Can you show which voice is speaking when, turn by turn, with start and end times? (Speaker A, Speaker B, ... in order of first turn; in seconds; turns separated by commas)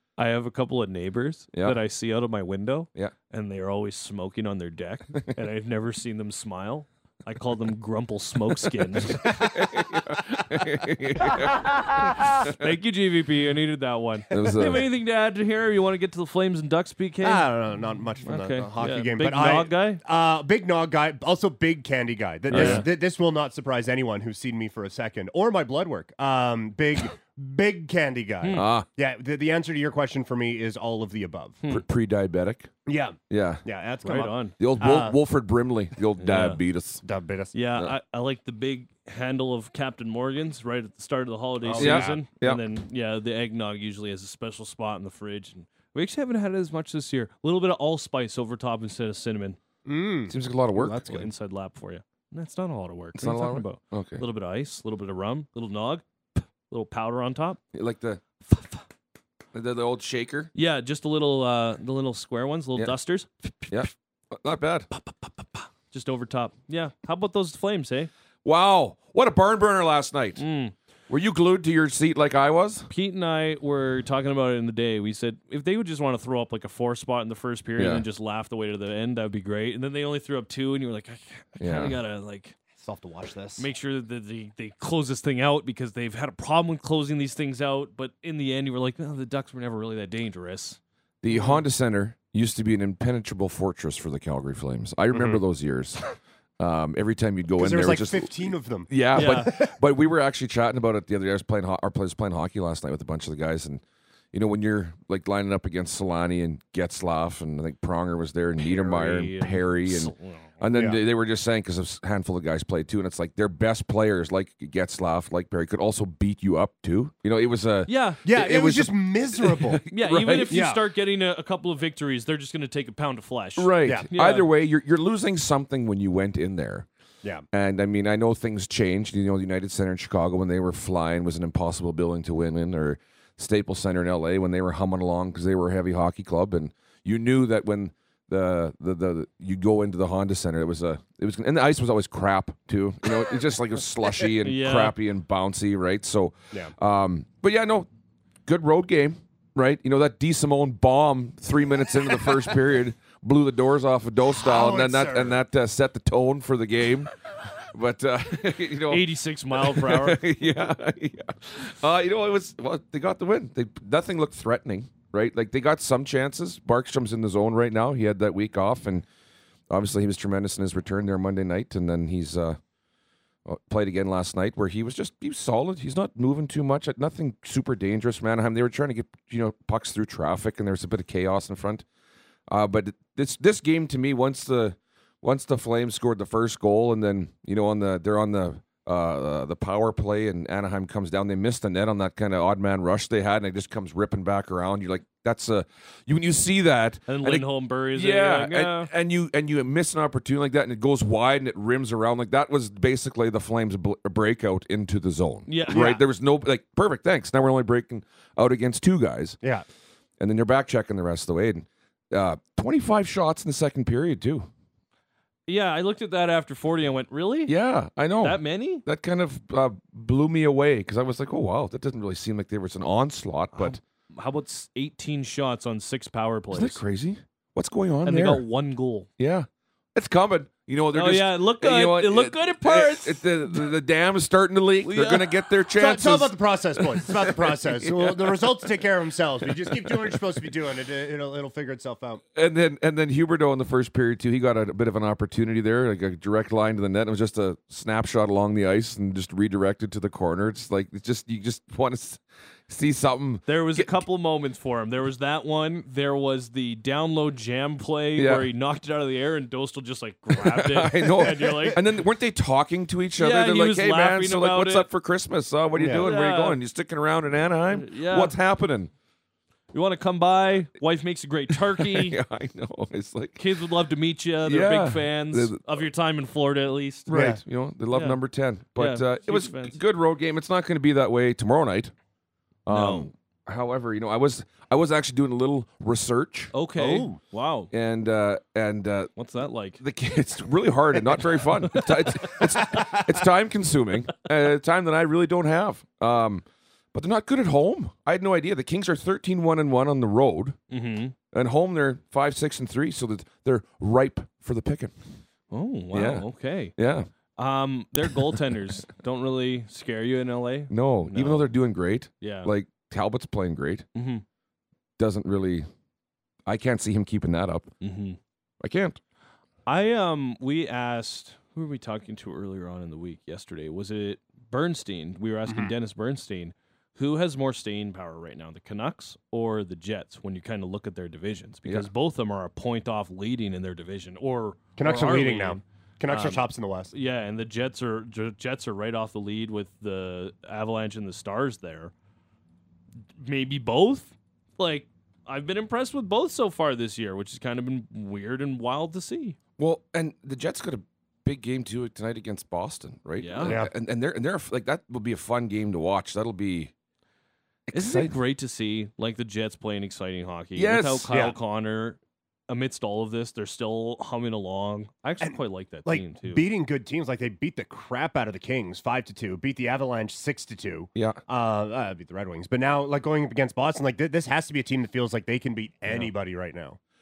Speaker A: 0.2-9.3, Speaker B: 9.2-12.6, Speaker A: 12.4-17.5, Speaker B: 14.3-14.9, Speaker C: 17.2-31.6, Speaker A: 18.2-20.0, Speaker B: 22.5-22.9, Speaker A: 22.5-22.9, Speaker B: 28.5-28.9, Speaker B: 31.7-32.7, Speaker C: 32.9-35.2, Speaker B: 33.3-33.6, Speaker A: 34.0-34.5, Speaker B: 34.6-37.0, Speaker A: 36.2-36.6, Speaker C: 37.0-37.5, Speaker A: 37.5-49.6, Speaker C: 41.6-42.2, Speaker B: 41.8-42.6, Speaker C: 49.9-51.2, Speaker B: 50.3-51.0, Speaker A: 50.8-57.6, Speaker B: 53.2-54.2, Speaker B: 57.7-58.3, Speaker A: 58.5-58.8, Speaker B: 59.5-60.5, Speaker A: 60.5-63.9, Speaker B: 63.7-64.9, Speaker A: 64.9-68.1, Speaker B: 68.5-70.4, Speaker A: 70.4-70.7, Speaker B: 71.1-72.9, Speaker A: 72.9-82.5, Speaker B: 77.8-78.0, Speaker B: 81.6-82.0, Speaker C: 82.8-83.7, Speaker A: 83.6-90.8, Speaker B: 91.2-96.0, Speaker A: 91.3-91.6, Speaker C: 95.1-95.4, Speaker B: 96.6-103.8, Speaker C: 97.6-99.7, Speaker A: 99.1-99.5, Speaker B: 104.3-120.7, Speaker A: 108.6-110.5, Speaker C: 110.7-111.0, Speaker A: 117.9-118.2, Speaker C: 118.2-119.8, Speaker A: 119.9-124.5, Speaker C: 120.5-120.8, Speaker B: 123.6-126.9, Speaker B: 127.5-147.9, Speaker A: 144.4-144.9, Speaker B: 148.5-157.1, Speaker C: 154.4-155.4, Speaker B: 157.7-169.1, Speaker A: 158.9-160.2, Speaker B: 169.7-172.6, Speaker B: 173.5-181.8, Speaker B: 182.5-209.4, Speaker A: 197.1-198.9, Speaker A: 205.5-206.0, Speaker B: 210.2-214.5, Speaker A: 215.5-217.5, Speaker B: 217.5-223.8, Speaker A: 218.2-218.8, Speaker A: 223.5-226.8, Speaker B: 226.5-228.4, Speaker A: 228.1-229.1, Speaker B: 229.2-238.5, Speaker A: 230.9-233.7, Speaker A: 234.8-235.3, Speaker C: 235.8-242.2, Speaker B: 239.7-240.2, Speaker B: 242.3-254.0, Speaker A: 253.5-261.8, Speaker B: 258.2-258.5, Speaker B: 260.3-268.9, Speaker A: 263.2-264.9, Speaker C: 265.8-266.1, Speaker A: 265.9-266.6, Speaker A: 267.7-268.4, Speaker A: 269.7-272.2, Speaker B: 271.5-273.4, Speaker A: 273.4-277.1, Speaker B: 274.4-275.6, Speaker B: 277.1-281.9, Speaker C: 277.1-277.4, Speaker A: 277.9-278.2, Speaker A: 278.8-279.8, Speaker B: 282.7-286.5, Speaker A: 282.7-283.1, Speaker A: 286.5-287.7, Speaker C: 286.8-287.2, Speaker B: 287.7-289.1, Speaker A: 289.2-289.8, Speaker B: 289.8-300.6, Speaker A: 291.7-292.4, Speaker A: 300.7-301.1, Speaker B: 301.3-304.9, Speaker A: 305.5-306.8, Speaker B: 305.9-307.1, Speaker A: 307.4-311.6, Speaker B: 310.7-313.9, Speaker A: 312.2-312.5, Speaker A: 313.9-314.2, Speaker B: 315.0-315.7, Speaker B: 316.5-317.7, Speaker A: 317.8-318.2, Speaker B: 318.6-319.0, Speaker A: 319.7-341.9, Speaker C: 325.5-325.7, Speaker C: 334.8-336.9, Speaker A: 343.2-349.4, Speaker B: 349.6-356.7, Speaker A: 353.2-353.6, Speaker C: 353.4-353.7, Speaker B: 357.7-358.2, Speaker A: 357.7-362.0, Speaker B: 360.6-361.1, Speaker A: 362.5-366.4, Speaker C: 365.2-376.8, Speaker B: 370.9-371.2